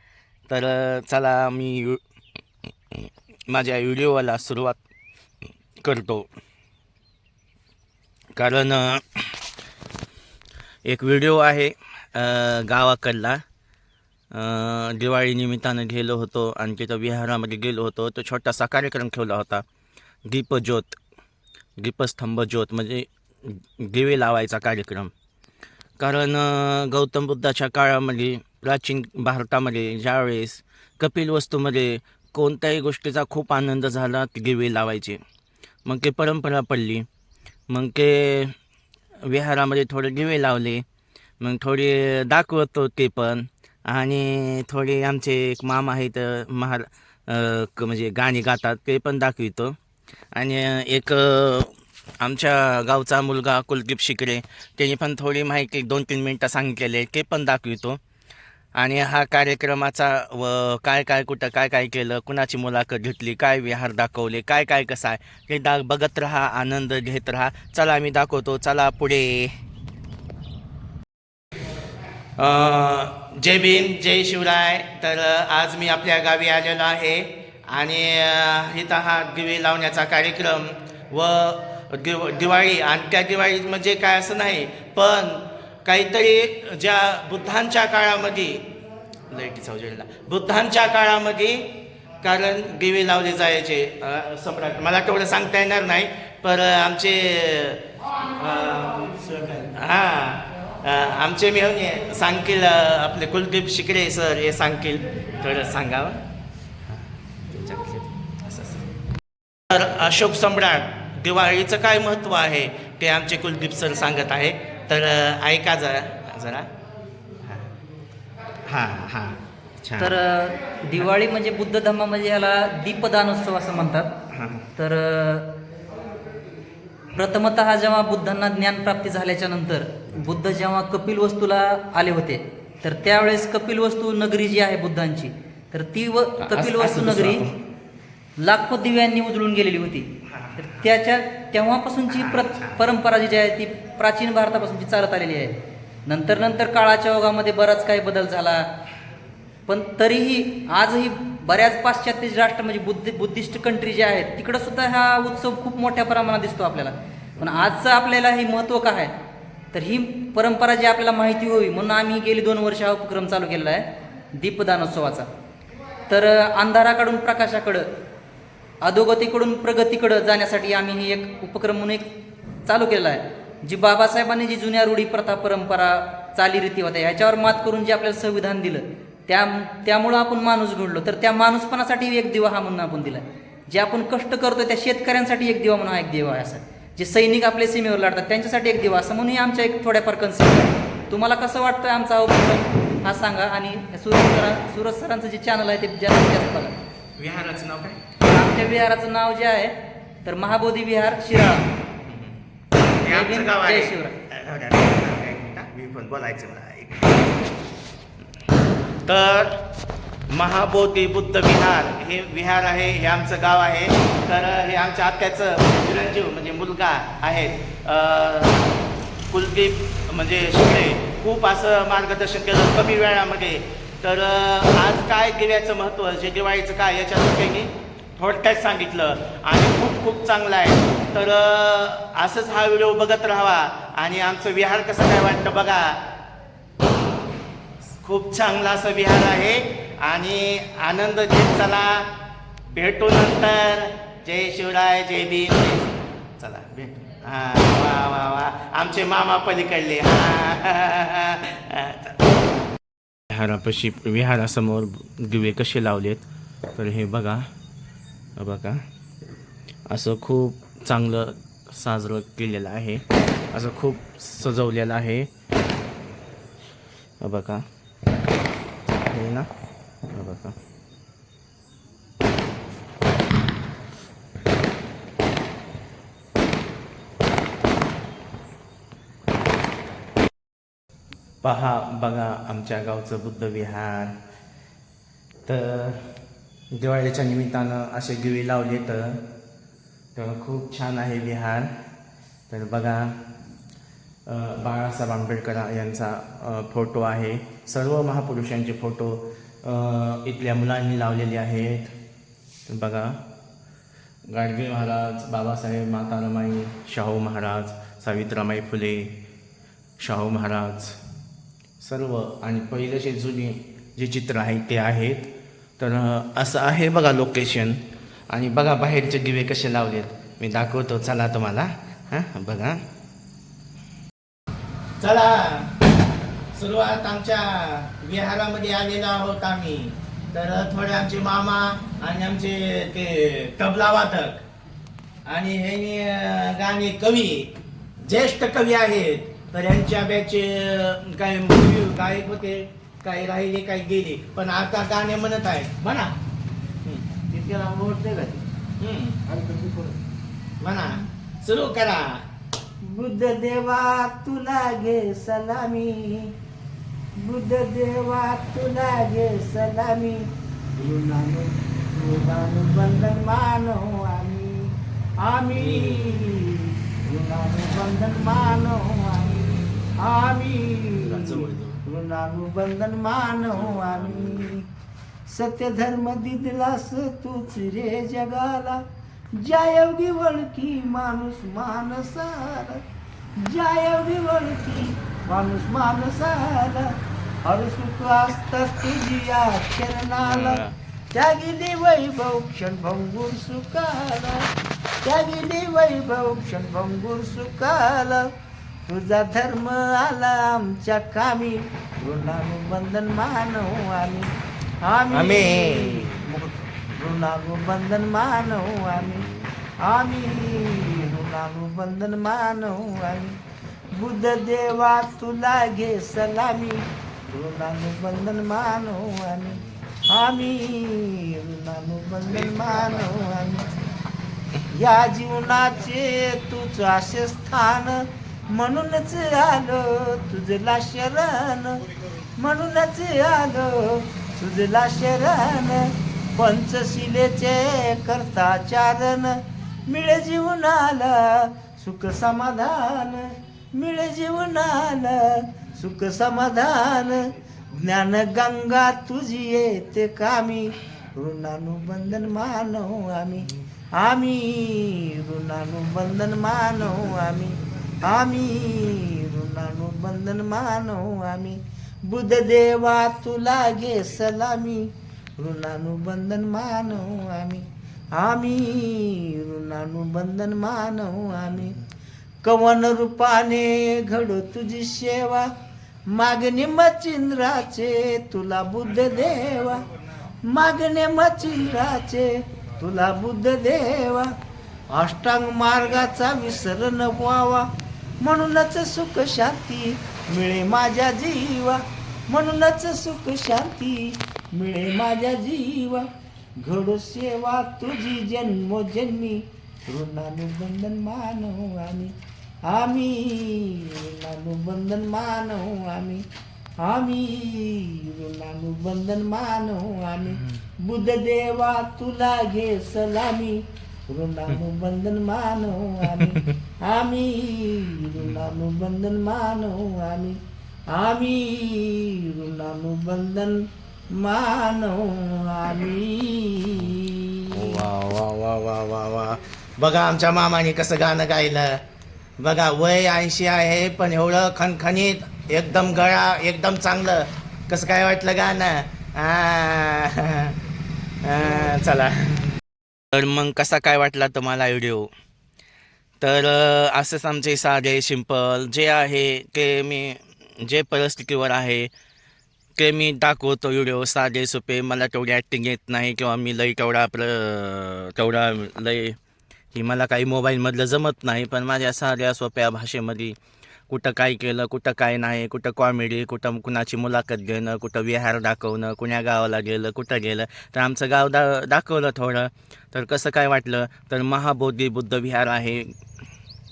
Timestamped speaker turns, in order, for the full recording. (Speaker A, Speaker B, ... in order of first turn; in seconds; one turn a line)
Speaker A: 0.5-2.0
Speaker A: 2.9-4.8
Speaker A: 5.8-6.3
Speaker A: 8.3-9.4
Speaker A: 10.8-13.4
Speaker A: 14.3-19.6
Speaker A: 20.2-20.9
Speaker A: 21.8-25.1
Speaker A: 26.0-35.2
Speaker A: 35.9-37.0
Speaker A: 37.7-38.5
Speaker A: 39.2-40.8
Speaker A: 41.4-49.8
Speaker A: 50.3-58.0
Speaker A: 58.8-69.5
Speaker A: 72.4-88.6
Speaker A: 89.3-106.2
Speaker A: 107.5-108.9
Speaker A: 109.7-116.7
Speaker A: 118.7-120.2
Speaker B: 120.0-124.1
Speaker A: 124.3-124.7
Speaker B: 124.8-125.5
Speaker B: 127.1-137.4
Speaker A: 136.4-137.6
Speaker B: 138.4-148.7
Speaker A: 140.2-140.9
Speaker A: 142.1-142.9
Speaker B: 149.7-159.1
Speaker B: 159.7-165.3
Speaker B: 166.1-167.8
Speaker B: 168.8-172.1
Speaker B: 172.7-196.8
Speaker A: 197.2-198.1
Speaker B: 198.2-201.7
Speaker A: 202.1-202.4
Speaker A: 203.0-207.3
Speaker B: 203.0-204.1
Speaker A: 209.0-209.6
Speaker A: 210.3-218.7
Speaker A: 219.3-236.0
Speaker A: 237.9-242.1
Speaker A: 242.7-252.2
Speaker A: 253.3-257.4
Speaker A: 258.4-258.8
Speaker A: 259.9-265.3
Speaker A: 267.2-267.6
Speaker A: 269.0-269.5
Speaker A: 270.1-270.6
Speaker A: 281.4-284.1
Speaker A: 285.4-286.0
Speaker A: 286.7-289.2
Speaker A: 290.1-291.7
Speaker A: 292.5-293.2
Speaker A: 294.2-301.9
Speaker A: 302.6-303.2
Speaker A: 304.3-309.1
Speaker A: 310.0-310.9
Speaker A: 311.8-317.8
Speaker A: 318.3-322.8
Speaker A: 325.0-325.7
Speaker A: 326.5-334.4
Speaker A: 335.2-346.1
Speaker C: 347.3-348.4
Speaker A: 348.8-349.2
Speaker C: 349.3-349.9
Speaker A: 350.6-352.2
Speaker C: 352.9-356.3
Speaker C: 357.2-360.2
Speaker C: 360.8-374.6
Speaker A: 365.5-366.3
Speaker A: 371.0-371.8
Speaker A: 373.4-374.5
Speaker C: 375.3-378.8
Speaker C: 379.4-382.8
Speaker C: 383.4-386.9
Speaker C: 387.4-390.6
Speaker A: 390.2-390.7
Speaker C: 391.1-394.5
Speaker C: 395.0-398.2
Speaker C: 398.9-404.3
Speaker C: 404.8-409.2
Speaker A: 405.1-406.3
Speaker C: 409.8-413.3
Speaker C: 413.9-419.6
Speaker C: 420.1-423.7
Speaker C: 424.7-431.8
Speaker C: 432.4-453.5
Speaker C: 454.0-457.5
Speaker C: 458.1-461.6
Speaker C: 462.1-464.8
Speaker C: 465.4-467.6
Speaker C: 468.1-471.7
Speaker C: 472.4-475.5
Speaker C: 476.1-479.8
Speaker C: 480.5-482.3
Speaker C: 482.8-484.3
Speaker C: 484.9-487.6
Speaker C: 488.2-496.1
Speaker C: 496.6-502.1
Speaker C: 502.7-506.2
Speaker C: 506.8-513.5
Speaker C: 514.1-520.4
Speaker A: 516.1-516.5
Speaker C: 520.9-523.6
Speaker C: 524.2-527.8
Speaker A: 527.5-531.8
Speaker A: 532.4-540.5
Speaker A: 541.2-542.6
Speaker A: 543.1-545.1
Speaker A: 546.2-551.9
Speaker A: 552.8-559.1
Speaker A: 559.7-563.4
Speaker A: 563.9-575.9